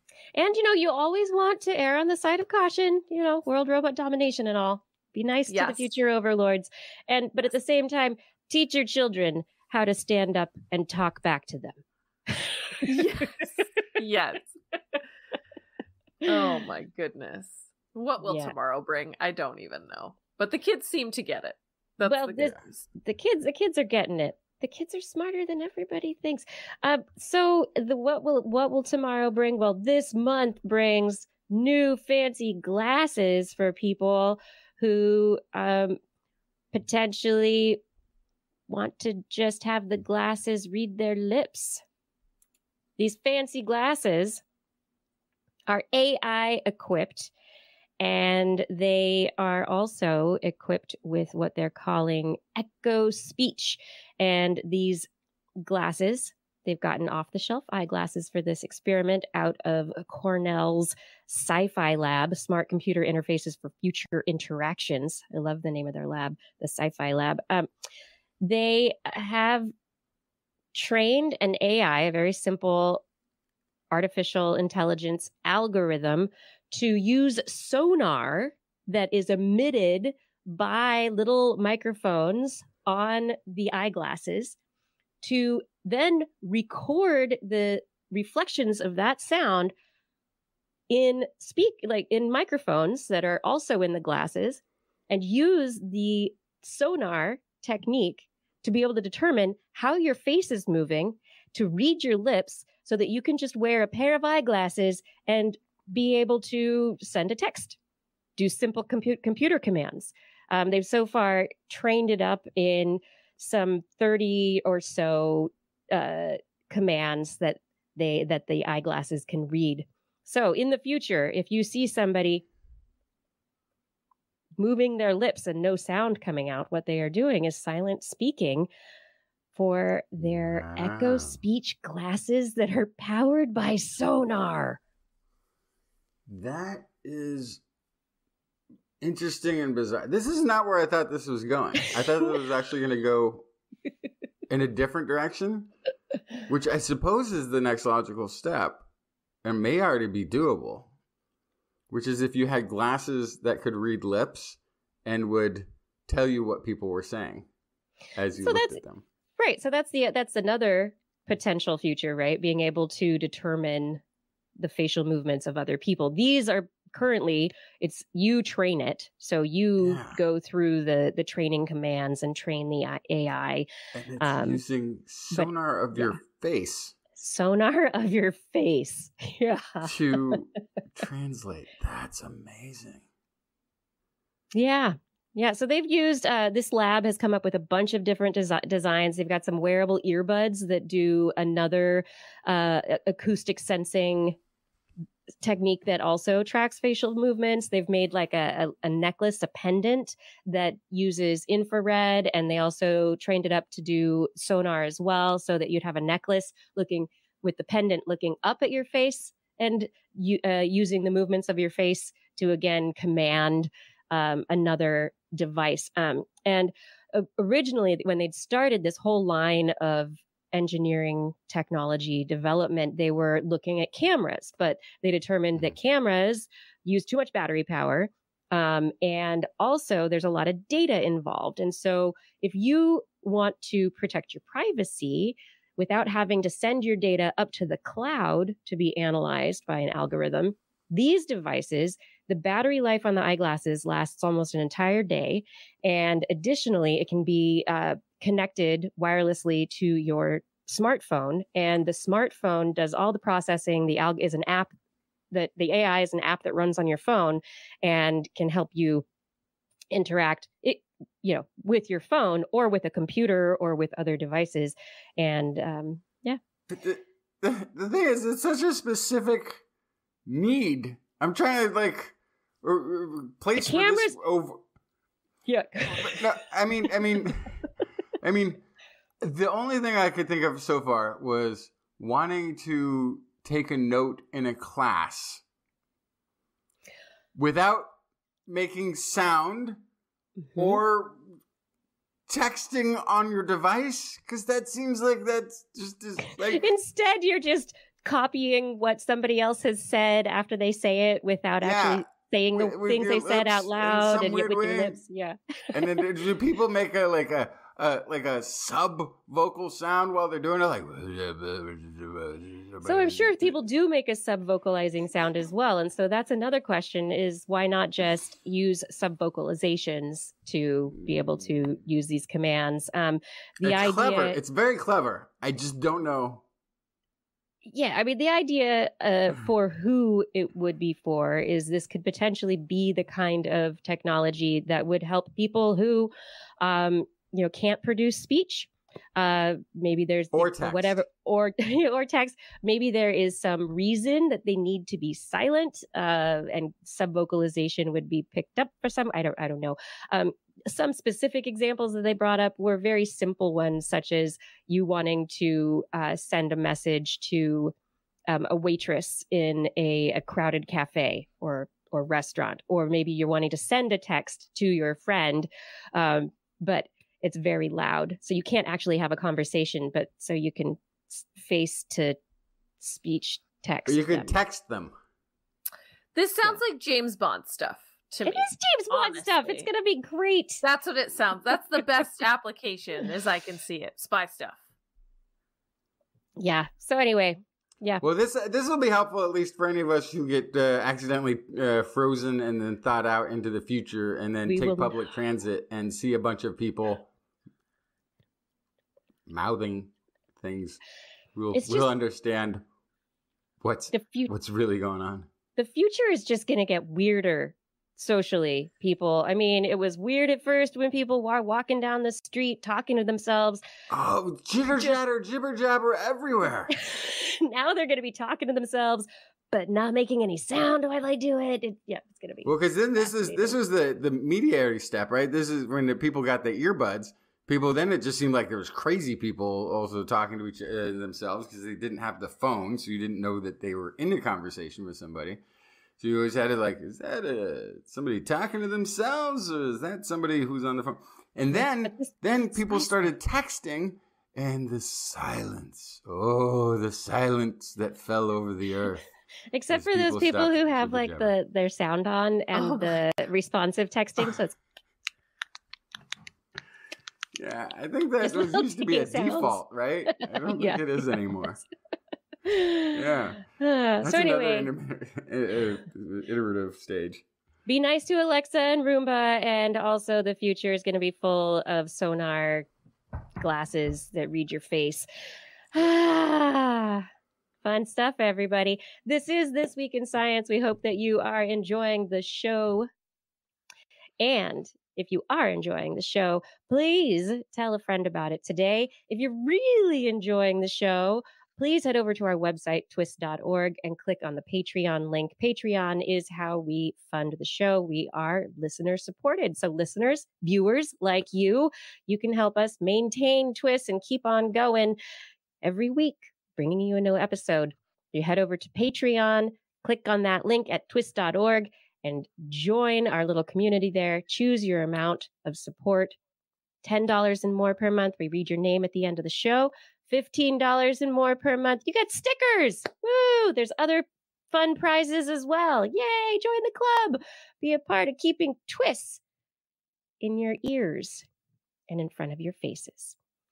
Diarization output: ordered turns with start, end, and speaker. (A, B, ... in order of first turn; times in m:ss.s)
0:00.4-0:13.0 A
0:05.5-0:05.9 B
0:12.8-0:14.6 B
0:16.2-0:22.8 B
0:18.2-0:18.5 A
0:22.0-0:36.0 A
0:36.7-0:37.8 A
0:38.7-0:41.8 A
0:43.0-0:44.4 A
0:45.7-0:47.3 A
0:48.0-0:55.1 A
0:55.6-1:07.7 A
1:08.4-1:09.7 A
1:10.7-1:13.0 A
1:13.9-1:24.6 A
1:25.2-1:29.7 A
1:30.9-1:47.8 A
1:48.4-2:02.4 A
2:04.6-2:08.7 A
2:09.5-2:14.8 A
2:10.2-2:11.4 C
2:16.3-2:17.6 C
2:19.0-2:23.5 C
2:24.5-2:25.7 C
2:26.5-2:28.8 C
2:29.4-2:30.9 C
2:31.9-2:37.5 C
2:38.1-2:39.0 C
2:38.4-2:38.8 A
2:39.4-2:44.0 A
2:44.6-2:53.6 A
2:49.8-2:50.2 C
2:53.9-2:57.0 C
2:54.2-2:54.6 A
2:55.3-2:56.2 A
2:57.2-3:00.3 A
2:59.8-3:03.0 C
3:04.5-3:14.4 A
3:15.4-4:14.7 A
4:15.3-4:19.0 A
4:19.9-4:26.4 A
4:26.7-4:29.6 C
4:30.2-4:34.6 C
4:33.6-4:34.2 A
4:35.5-4:36.3 A
4:35.9-4:37.6 C
4:38.2-4:38.6 C
4:39.2-4:45.4 C
4:47.3-4:47.9 C
4:48.4-4:49.8 C
4:50.5-4:50.8 A
4:50.6-4:51.2 C
4:52.3-4:56.6 C
4:56.5-5:06.0 A
5:01.6-5:05.0 C
5:05.7-5:13.6 C
5:12.8-5:24.4 A
5:21.0-5:21.2 C
5:23.6-5:26.4 C
5:27.6-5:57.7 A
5:40.3-5:41.0 C
5:58.3-6:12.2 A
6:12.8-6:14.3 A
6:13.8-6:14.9 C
6:16.1-6:19.7 B
6:18.2-6:20.6 A
6:20.6-6:24.6 B
6:26.4-6:28.0 A
6:28.0-6:37.1 C
6:34.5-6:34.9 A
6:39.3-6:40.8 C
6:41.3-6:42.6 C
6:41.5-6:41.9 A
6:43.6-6:45.3 C
6:43.9-6:44.3 A
6:45.6-6:53.6 A
6:53.9-6:56.7 C
6:56.7-7:03.6 A
7:02.4-7:15.4 C
7:16.0-7:29.0 C
7:21.9-7:22.9 A
7:29.5-7:34.6 A
7:29.7-7:31.3 C
7:32.5-7:33.0 B
7:37.4-7:41.6 C
7:38.2-7:41.0 A
7:42.4-7:44.7 A
7:42.9-7:43.4 C
7:44.0-7:47.2 C
7:47.6-7:52.7 A
7:53.4-7:55.0 A
7:55.7-7:57.0 A
7:57.6-8:02.9 A
8:04.2-8:25.0 A
8:25.6-8:36.2 A
8:36.8-8:49.2 A
8:50.2-8:51.2 A
8:51.9-8:53.2 A